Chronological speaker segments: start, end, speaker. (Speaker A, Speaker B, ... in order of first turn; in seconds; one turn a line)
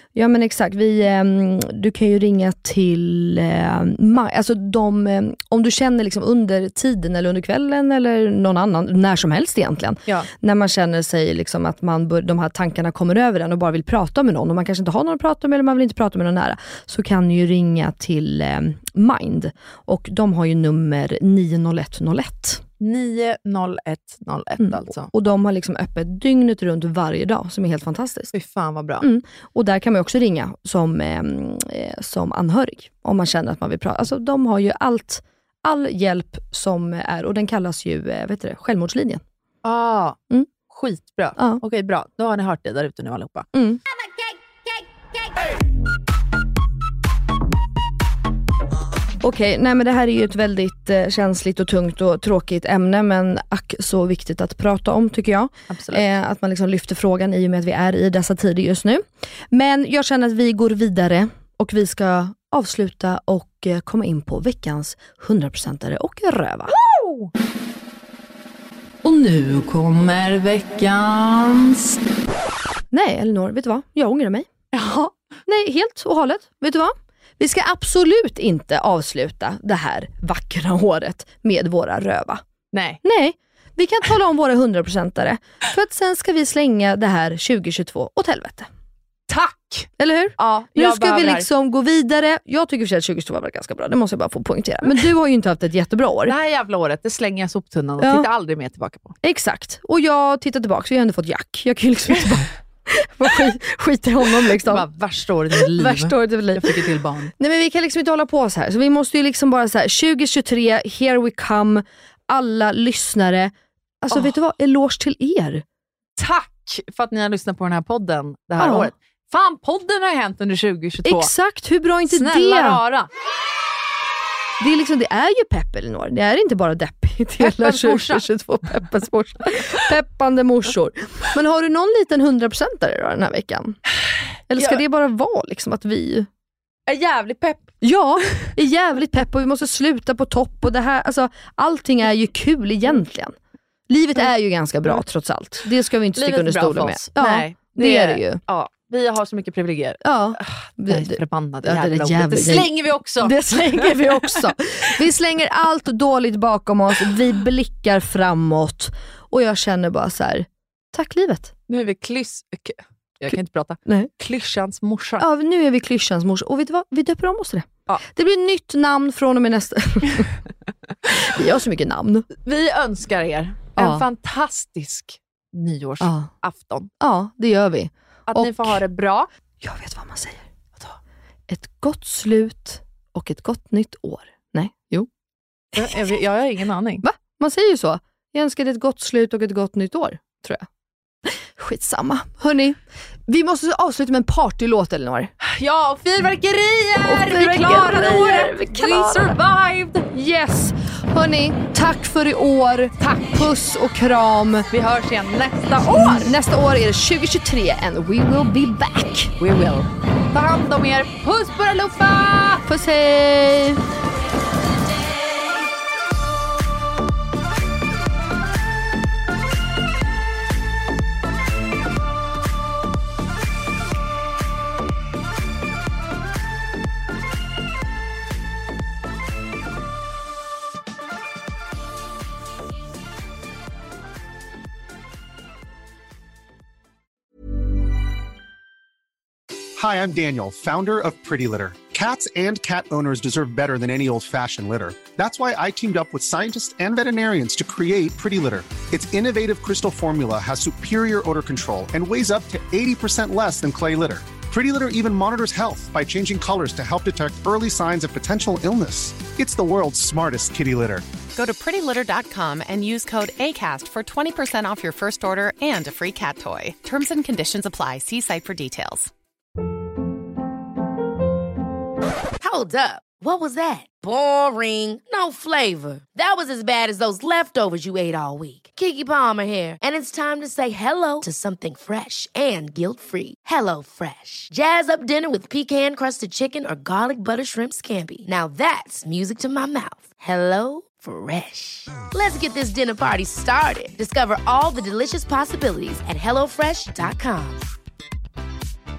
Speaker A: 0.1-22.6
Speaker B: 22.8-25.1
Speaker A: 24.6-28.3
Speaker B: 28.3-29.1
Speaker A: 29.0-39.2
Speaker B: 39.6-43.5
Speaker A: 43.5-43.8
Speaker A: 49.2-66.7
Speaker B: 55.7-56.1
Speaker B: 66.7-67.3
Speaker B: 69.0-72.0
Speaker A: 72.9-74.5
Speaker B: 74.7-75.2
Speaker A: 75.5-82.4
Speaker B: 82.7-83.0
Speaker A: 83.0-88.7
Speaker B: 89.3-91.5
Speaker A: 90.0-96.3
Speaker B: 96.3-99.2
Speaker A: 98.0-98.3
Speaker A: 99.2-104.9
Speaker B: 104.4-107.3
Speaker A: 105.5-106.8
Speaker A: 107.4-115.6
Speaker B: 116.2-121.3
Speaker A: 118.6-118.9
Speaker A: 121.0-122.8
Speaker B: 122.1-123.1
Speaker A: 124.6-133.8
Speaker B: 127.4-128.3
Speaker A: 134.5-136.3
Speaker B: 134.6-134.8
Speaker B: 136.9-137.8
Speaker A: 137.8-143.3
Speaker A: 143.9-148.4
Speaker B: 146.2-154.5
Speaker A: 150.0-161.5
Speaker B: 161.7-165.3
Speaker A: 163.9-164.1
Speaker A: 165.2-170.4
Speaker A: 171.1-172.3
Speaker B: 172.4-176.9
Speaker A: 173.8-174.1
Speaker A: 176.0-176.3
Speaker A: 177.0-178.8
Speaker B: 178.3-179.3
Speaker A: 179.6-180.5
Speaker A: 181.5-185.1
Speaker B: 185.8-187.1
Speaker A: 187.0-190.7
Speaker A: 191.3-195.3
Speaker B: 195.4-200.1
Speaker A: 197.0-199.4
Speaker A: 200.1-204.7
Speaker B: 203.0-203.4
Speaker B: 204.7-206.4
Speaker A: 205.8-209.3
Speaker B: 209.4-212.7
Speaker A: 212.7-213.8
Speaker C: 239.8-261.1
Speaker D: 261.3-269.1
Speaker E: 272.4-297.6